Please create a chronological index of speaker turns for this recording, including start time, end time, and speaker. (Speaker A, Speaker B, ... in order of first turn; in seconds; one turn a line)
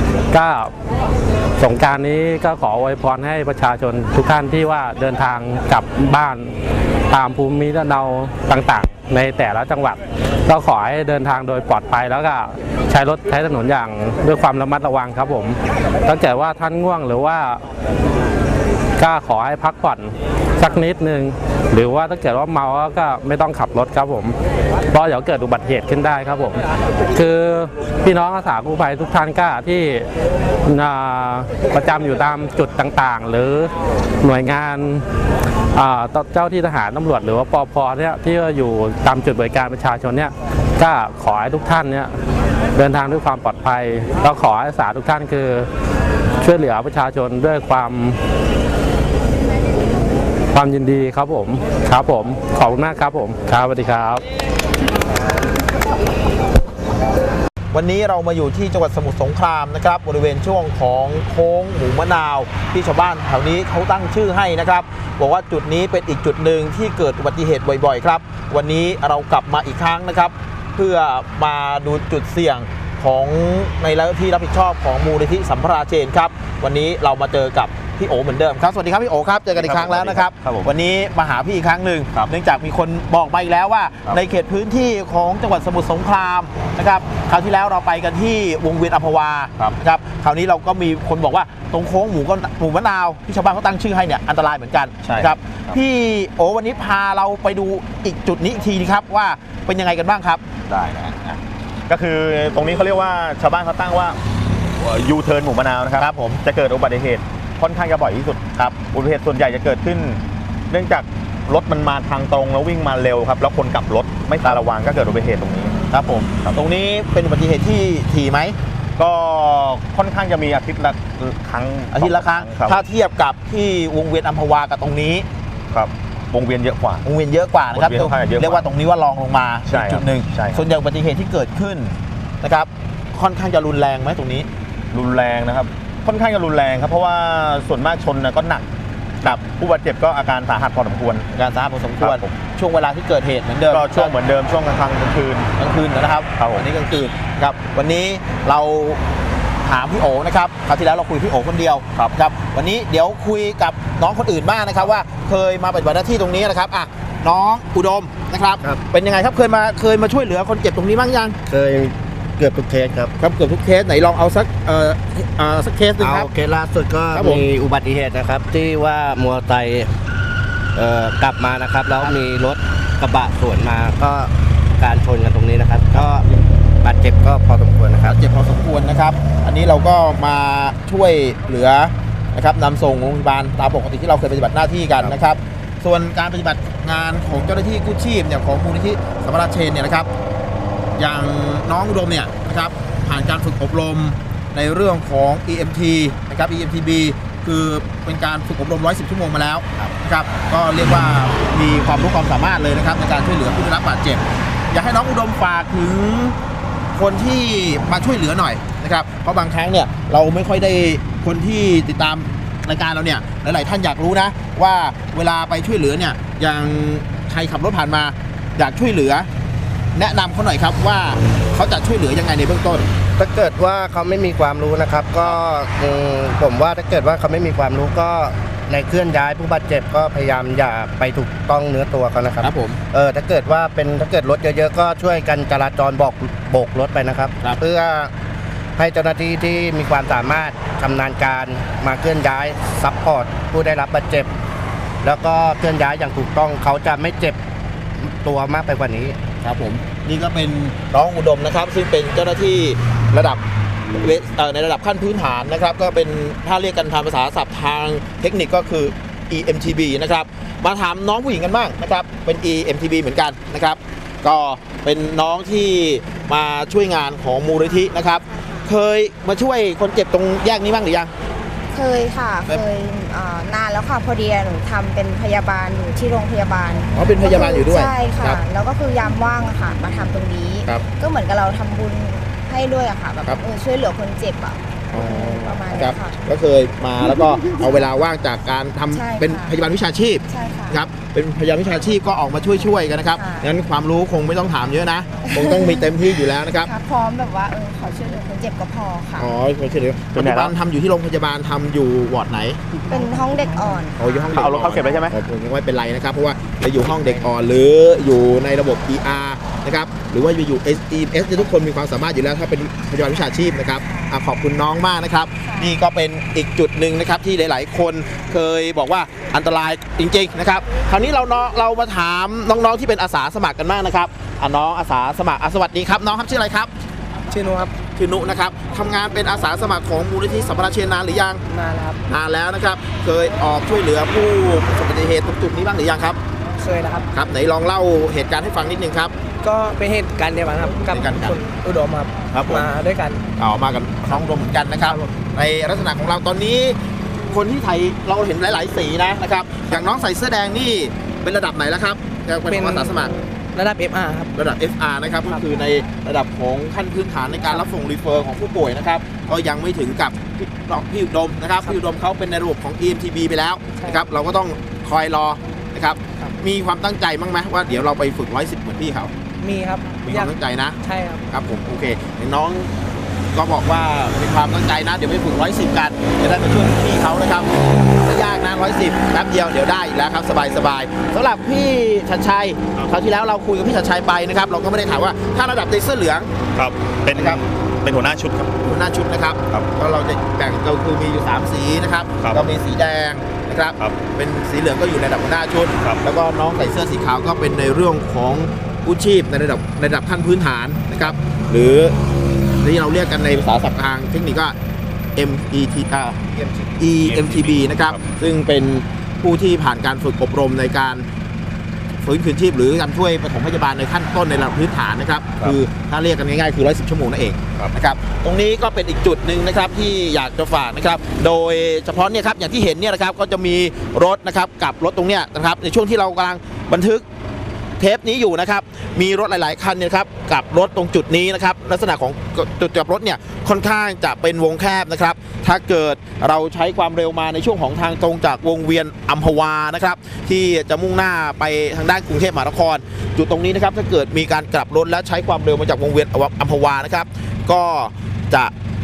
Speaker A: 0.3-0.7
Speaker A: 1.6-6.5
Speaker A: 7.1-17.6
Speaker A: 19.0-24.4
Speaker A: 24.9-30.1
Speaker A: 30.6-35.0
Speaker A: 35.7-42.1
Speaker A: 42.7-45.7
Speaker A: 46.4-48.2
Speaker A: 50.5-54.2
Speaker B: 57.7-100.5
Speaker C: 79.5-80.7
Speaker C: 95.0-95.8
Speaker C: 100.7-101.4
Speaker C: 101.9-104.2
Speaker C: 104.8-115.8
Speaker B: 106.0-106.4
Speaker B: 108.5-108.8
Speaker B: 115.9-118.6
Speaker C: 119.0-122.8
Speaker B: 121.9-125.3
Speaker C: 125.7-127.0
Speaker B: 127.0-134.5
Speaker C: 127.7-128.6
Speaker C: 129.7-130.7
Speaker C: 134.9-138.7
Speaker C: 139.2-141.3
Speaker B: 141.3-144.1
Speaker C: 142.0-142.3
Speaker C: 143.7-145.5
Speaker B: 145.6-149.0
Speaker C: 146.4-146.7
Speaker B: 149.6-161.4
Speaker D: 161.5-163.1
Speaker B: 163.2-166.3
Speaker D: 166.0-169.9
Speaker B: 167.1-167.4
Speaker D: 170.8-178.2
Speaker B: 178.1-190.1
Speaker B: 191.0-206.4
Speaker B: 206.9-219.3
Speaker B: 219.9-222.9
Speaker D: 223.2-238.1
Speaker B: 232.4-232.8
Speaker D: 238.8-244.3
Speaker D: 245.0-247.4
Speaker D: 248.0-249.2
Speaker B: 249.4-271.1
Speaker E: 267.6-268.6
Speaker E: 271.7-286.2
Speaker B: 276.9-278.4
Speaker B: 284.9-296.7
Speaker E: 288.9-289.6
Speaker E: 290.3-290.8
Speaker E: 293.1-293.5
Speaker E: 295.2-296.0
Speaker E: 296.6-299.3
Speaker B: 299.2-302.7
Speaker C: 300.1-300.5
Speaker E: 302.9-305.1
Speaker B: 304.0-326.7
Speaker C: 304.3-305.1
Speaker C: 306.9-307.1
Speaker E: 313.8-314.2
Speaker E: 315.4-315.7
Speaker F: 327.3-327.8
Speaker B: 327.9-331.4
Speaker F: 331.5-332.0
Speaker B: 332.1-336.2
Speaker F: 336.6-337.1
Speaker B: 337.1-339.1
Speaker F: 339.4-343.2
Speaker B: 340.9-341.4
Speaker C: 342.3-342.7
Speaker B: 343.4-346.8
Speaker F: 344.8-345.1
Speaker B: 347.3-353.1
Speaker F: 352.5-353.0
Speaker F: 353.5-354.3
Speaker B: 354.3-369.1
Speaker F: 363.8-364.0
Speaker F: 369.4-371.2
Speaker B: 370.0-372.7
Speaker B: 373.3-377.5
Speaker B: 378.0-386.3
Speaker C: 386.6-388.5
Speaker B: 387.1-387.4
Speaker B: 388.6-402.0
Speaker C: 392.2-392.4
Speaker B: 402.6-404.6
Speaker B: 405.2-411.1
Speaker C: 407.0-408.0
Speaker B: 412.0-427.0
Speaker B: 427.8-448.5